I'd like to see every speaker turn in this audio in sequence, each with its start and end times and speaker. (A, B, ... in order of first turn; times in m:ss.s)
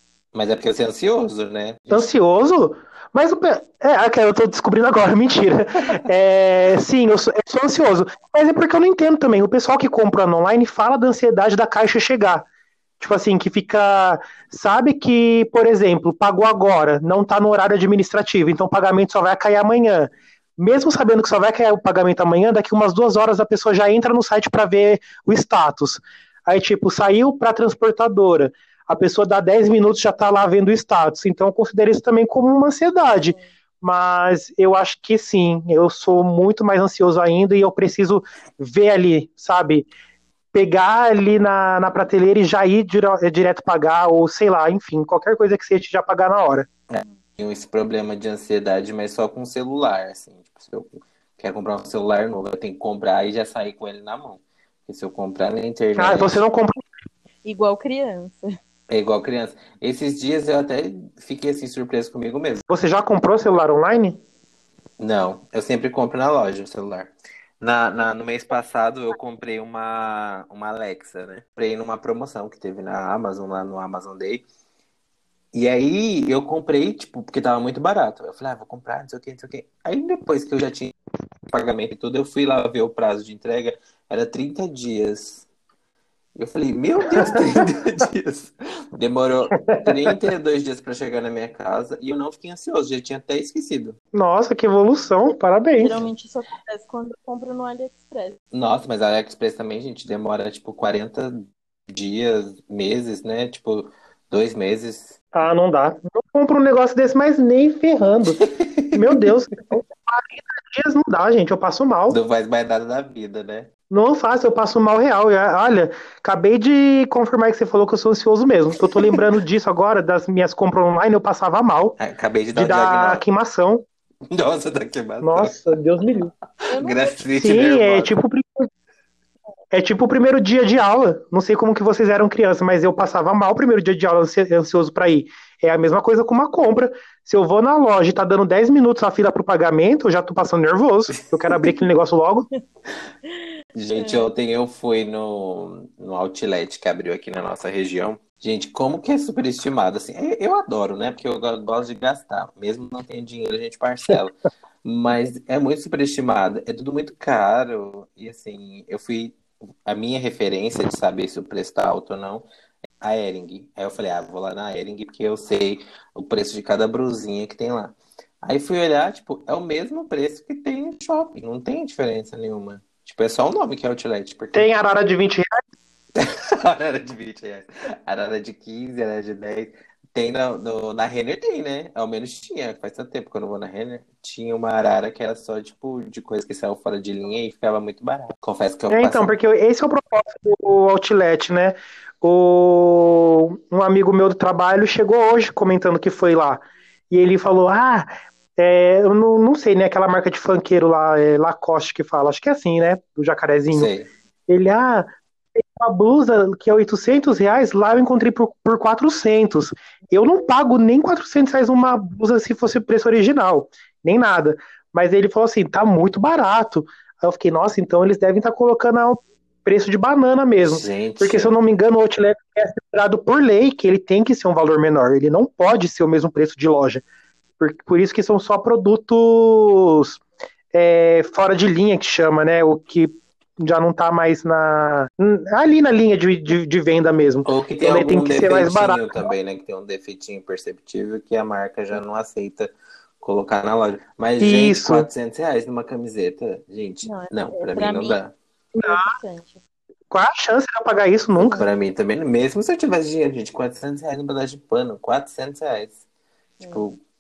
0:00.3-0:02.1 A
0:01.9-0:12.5 B
0:13.0-0:39.9 B
0:33.1-0:33.5 C
0:40.5-0:46.7 B
0:46.9-0:56.4 A
0:56.0-0:56.8 B
0:57.4-0:58.4 C
0:58.9-1:02.6 A
1:02.7-1:04.2 B
1:05.0-1:14.4 A
1:15.5-1:20.9 A
1:21.5-1:25.5 A
1:26.4-1:34.0 A
1:27.1-1:27.6 B
1:29.6-1:30.1 B
1:34.1-1:36.0 B
1:35.8-1:38.4 C
1:38.5-1:45.2 A
1:45.3-1:48.4 B
1:48.4-1:49.1 A
1:48.9-1:52.2 B
1:52.1-1:53.7 A
1:53.9-2:02.0 B
2:02.0-2:03.2 A
2:02.5-2:03.8 B
2:04.3-2:05.6 A
2:05.2-2:06.3 B
2:06.7-2:07.2 C
2:06.8-2:08.2 A
2:07.4-2:08.7 B
2:09.7-2:22.5 B
2:21.2-2:21.8 A
2:23.3-2:24.3 C
2:23.8-2:42.5 A
2:43.0-2:54.7 A
2:54.5-2:55.6 B
2:56.2-3:09.3 A
3:08.9-3:23.9 B
3:23.7-3:24.1 A
3:24.5-3:47.0 B
3:40.6-3:41.5 A
3:47.6-3:50.2 B
3:50.7-3:59.3 B
3:57.4-4:08.4 A
4:04.4-4:05.1 B
4:07.0-4:08.2 C
4:08.8-4:09.2 B
4:08.8-4:09.6 C
4:10.1-4:11.6 B
4:11.3-4:16.0 A
4:16.6-4:16.8 C
4:16.7-4:17.0 A